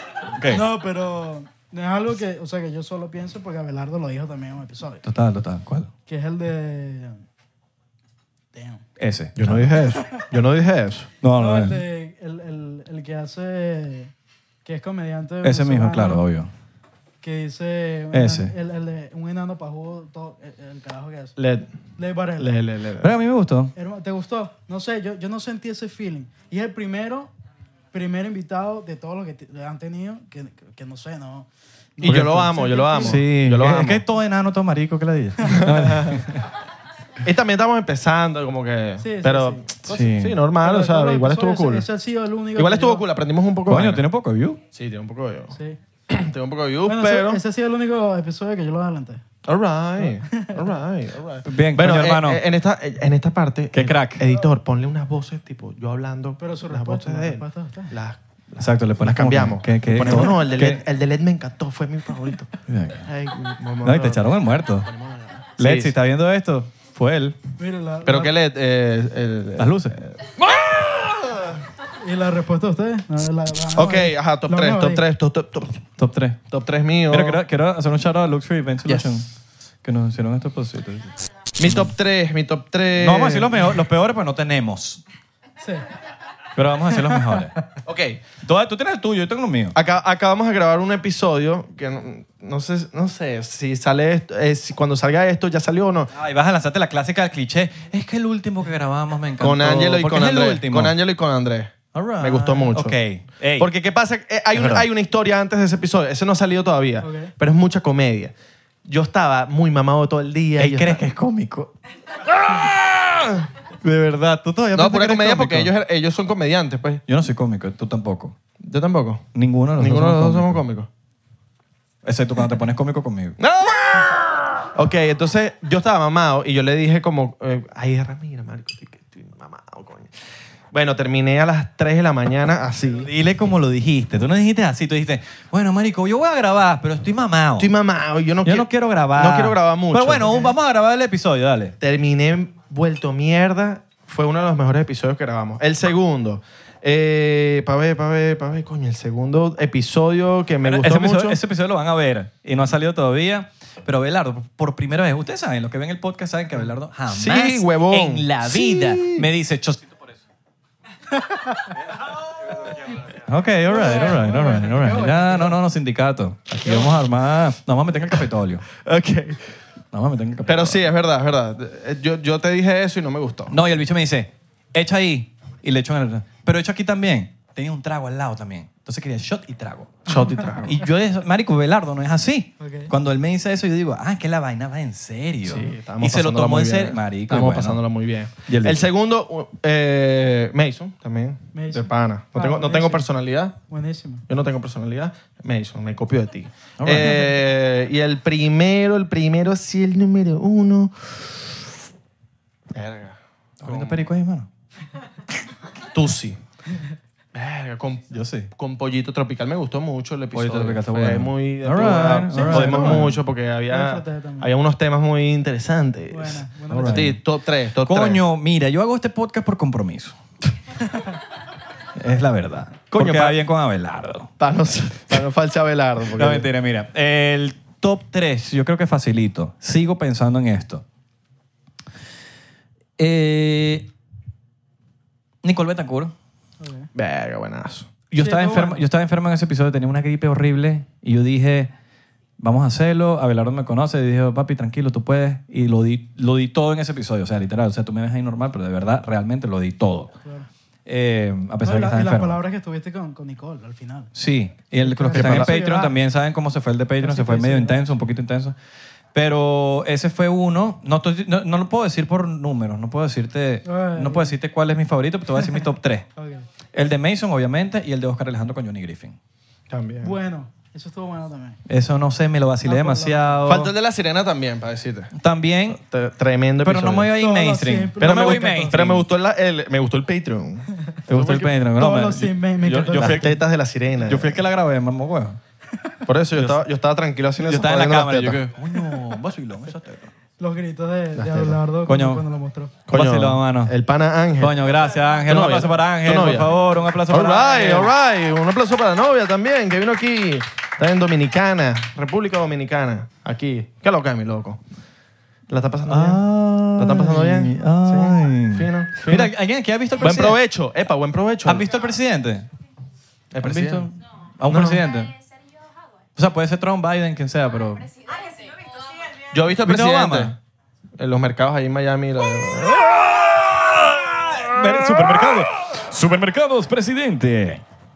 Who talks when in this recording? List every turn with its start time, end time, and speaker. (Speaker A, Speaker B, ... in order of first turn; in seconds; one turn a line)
Speaker A: 0.3-0.7
Speaker B: 0.5-5.0
Speaker A: 5.0-5.9
Speaker B: 6.1-7.2
Speaker B: 8.5-8.8
Speaker A: 9.0-9.7
Speaker C: 9.4-11.1
Speaker A: 11.2-11.8
Speaker B: 11.3-14.1
Speaker B: 14.7-16.3
Speaker A: 15.4-16.5
Speaker B: 17.2-21.4
Speaker A: 18.1-18.5
Speaker C: 21.4-21.7
Speaker B: 22.0-22.6
Speaker C: 22.4-23.1
Speaker A: 23.0-23.7
Speaker B: 23.8-27.3
Speaker B: 27.9-33.2
Speaker C: 32.0-34.0
Speaker A: 33.0-36.4
Speaker C: 35.6-36.2
Speaker C: 37.2-41.9
Speaker B: 39.0-39.6
Speaker A: 39.9-40.4
Speaker B: 40.6-43.0
Speaker C: 42.6-44.0
Speaker A: 43.7-44.6
Speaker C: 44.7-45.5
Speaker B: 45.5-45.8
Speaker C: 46.1-47.4
Speaker B: 46.9-49.2
Speaker C: 49.5-62.5
Speaker B: 50.1-50.6
Speaker A: 51.5-52.4
Speaker A: 53.7-54.2
Speaker B: 56.4-58.0
Speaker A: 58.6-60.8
Speaker A: 62.7-63.1
Speaker C: 63.0-64.2
Speaker A: 63.8-64.9
Speaker C: 64.8-66.0
Speaker A: 65.6-67.4
Speaker B: 67.6-68.3
Speaker C: 68.1-71.6
Speaker A: 69.6-70.0
Speaker B: 72.0-75.0
Speaker C: 73.8-75.8
Speaker A: 76.0-76.4
Speaker C: 76.5-77.4
Speaker A: 77.1-79.3
Speaker C: 78.8-79.2
Speaker A: 79.8-81.8
Speaker C: 81.6-83.8
Speaker A: 83.0-85.0
Speaker B: 85.6-85.9
Speaker A: 86.5-87.5
Speaker B: 87.0-87.5
Speaker C: 87.8-88.2
Speaker A: 88.4-89.8
Speaker C: 89.7-96.1
Speaker A: 96.1-101.0
Speaker C: 99.4-103.0
Speaker A: 101.9-103.7
Speaker C: 103.6-108.3
Speaker A: 104.5-104.8
Speaker B: 107.0-107.3
Speaker C: 108.8-111.0
Speaker A: 110.6-111.7
Speaker C: 112.8-113.4
Speaker A: 113.8-115.7
Speaker C: 114.7-117.0
Speaker A: 117.1-118.3
Speaker C: 118.6-120.9
Speaker A: 119.3-120.6
Speaker A: 122.0-123.4
Speaker C: 123.4-130.1
Speaker C: 130.7-133.1
Speaker A: 133.0-137.7
Speaker C: 137.6-140.5
Speaker A: 138.4-141.8
Speaker C: 141.8-151.4
Speaker A: 150.6-160.2
Speaker C: 157.1-159.3
Speaker B: 161.2-161.6
Speaker A: 163.1-168.7
Speaker B: 163.7-165.6
Speaker C: 168.8-169.5
Speaker A: 169.9-170.9
Speaker C: 170.5-173.6
Speaker A: 173.5-180.1
Speaker C: 180.1-180.8
Speaker B: 180.1-180.5
Speaker A: 180.6-187.8
Speaker B: 182.6-182.9
Speaker C: 185.5-193.6
Speaker A: 188.5-188.9
Speaker B: 191.5-193.1
Speaker B: 193.7-194.2
Speaker C: 194.3-201.7
Speaker A: 196.8-197.4
Speaker C: 202.7-204.1
Speaker A: 203.6-204.5
Speaker C: 205.9-206.4
Speaker C: 207.3-218.2
Speaker A: 208.1-208.5
Speaker A: 210.3-213.2
Speaker B: 211.8-213.2
Speaker B: 213.7-214.5
Speaker B: 216.1-217.1
Speaker A: 216.7-217.2
Speaker A: 217.8-220.2
Speaker A: 222.0-224.3
Speaker C: 222.9-223.4
Speaker C: 224.4-226.5
Speaker A: 226.2-230.8
Speaker A: 233.0-233.9
Speaker A: 235.4-236.1
Speaker B: 236.6-236.9
Speaker C: 236.9-237.9
Speaker A: 238.1-241.7
Speaker B: 238.2-238.8
Speaker A: 242.4-250.1
Speaker A: 250.9-252.4
Speaker B: 251.6-254.1
Speaker A: 254.2-258.6
Speaker B: 254.8-256.0
Speaker C: 255.1-255.6
Speaker B: 257.0-257.9
Speaker A: 259.1-266.1
Speaker B: 263.6-264.4
Speaker B: 266.2-266.4
Speaker A: 266.7-269.2
Speaker C: 269.7-270.2
Speaker B: 270.0-271.6
Speaker A: 271.7-273.7
Speaker B: 272.6-273.5
Speaker C: 273.5-275.1
Speaker A: 275.2-275.8
Speaker C: 275.7-277.1
Speaker A: 276.6-279.1
Speaker B: 277.1-278.8
Speaker C: 278.0-281.5
Speaker A: 281.1-283.4
Speaker B: 281.7-283.3
Speaker C: 283.0-284.4
Speaker A: 284.0-285.4
Speaker C: 286.1-288.5
Speaker A: 286.3-286.6
Speaker A: 287.4-290.1
Speaker B: 290.4-292.8
Speaker C: 291.2-291.6
Speaker A: 291.9-292.2
Speaker C: 292.9-294.6
Speaker A: 292.9-293.7
Speaker A: 294.4-297.9
Speaker C: 295.3-296.6
Speaker C: 297.1-304.6
Speaker C: 305.5-309.3
Speaker A: 305.9-310.4
Speaker C: 310.0-311.7
Speaker A: 311.5-312.5
Speaker C: 313.3-313.9
Speaker A: 313.4-315.1
Speaker C: 314.4-314.9
Speaker D: 314.9-316.0
Speaker A: 316.2-317.9
Speaker D: 317.9-319.0
Speaker C: 319.3-320.4
Speaker A: 319.6-320.4
Speaker C: 321.0-323.5
Speaker A: 323.9-327.6
Speaker C: 324.8-325.3